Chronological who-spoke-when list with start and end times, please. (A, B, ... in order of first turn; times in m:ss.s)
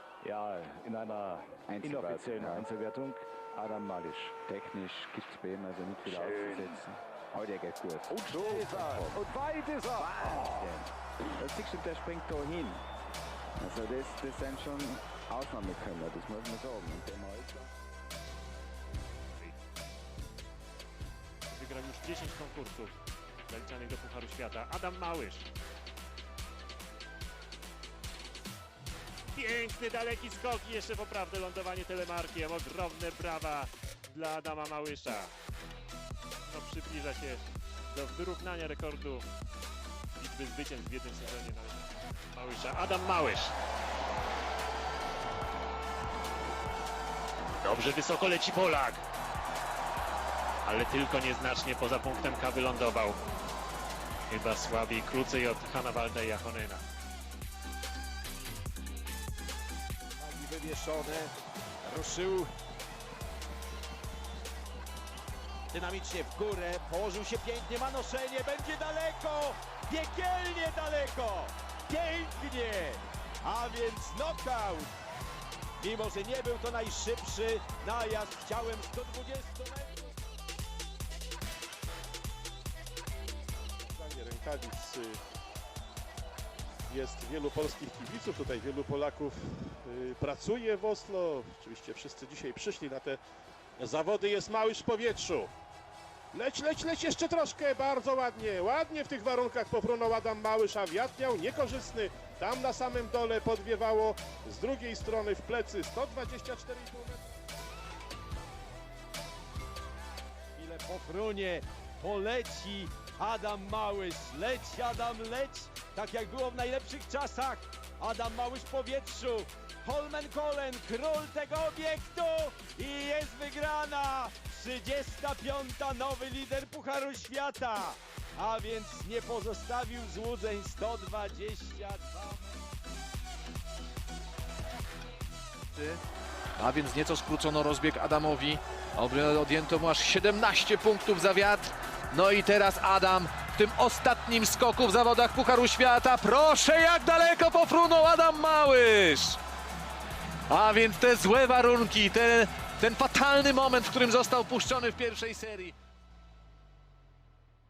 0:00.2-0:04.4 A
0:01.7-0:02.7 B
0:04.4-0:09.3 B
0:06.3-0:06.6 A
0:08.1-0:10.1 A
0:09.9-0:12.8 B
0:13.6-0:17.7 B
0:21.5-0:22.9 C
0:23.5-0:25.5 C
0:29.3-0:35.3 C
0:36.4-0:39.3 C
0:40.2-0:43.6 C
0:47.6-0:49.0 C
0:50.6-0:53.2 C
0:54.3-0:56.8 C
1:00.2-1:01.3 D
1:01.8-1:02.5 D
1:05.7-1:14.9 D
1:15.8-1:20.1 D
1:23.8-1:25.2 E
1:26.9-1:33.2 E
1:33.8-1:35.5 E
1:36.3-1:47.3 E
1:50.6-2:12.5 D
2:15.8-2:16.0 F
2:16.6-2:29.4 F
2:30.5-2:35.8 F